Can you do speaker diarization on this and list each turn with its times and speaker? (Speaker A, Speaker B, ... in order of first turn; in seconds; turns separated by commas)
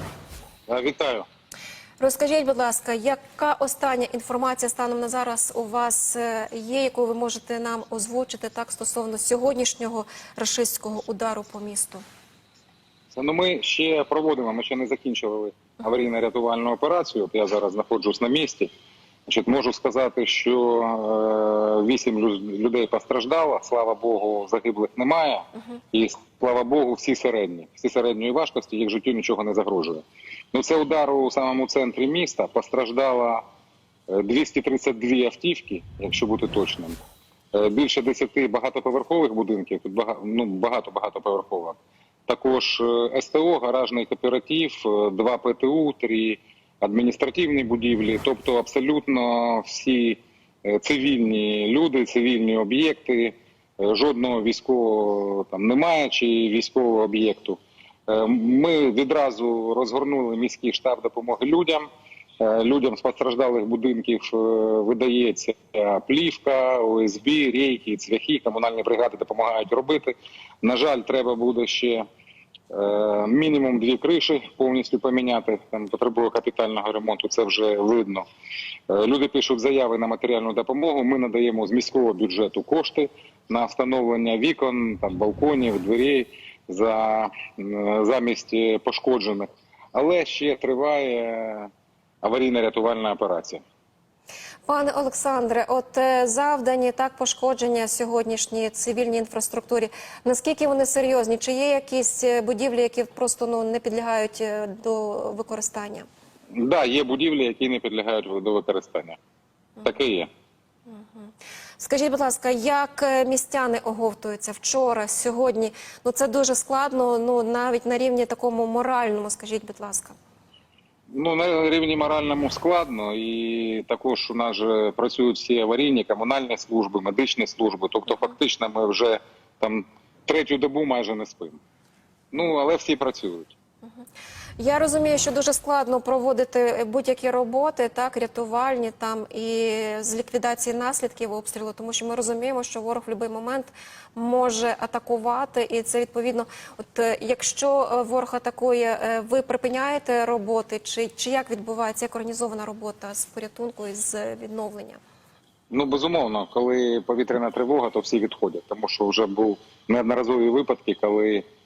Speaker A: 0.7-1.2, Speaker B: 2.0-12.0, Speaker A: 13.1-18.7, Speaker A: 19.3-33.4, Speaker A: 34.1-37.0, Speaker A: 37.5-61.9, Speaker A: 62.4-72.0, Speaker A: 72.7-78.2, Speaker A: 78.9-91.7, Speaker A: 92.2-93.6, Speaker B: 94.7-106.1, Speaker A: 106.5-109.2, Speaker A: 109.8-110.3, Speaker B: 110.9-120.2, Speaker A: 121.1-131.6, Speaker A: 132.3-133.5, Speaker B: 134.6-155.0, Speaker A: 155.7-161.4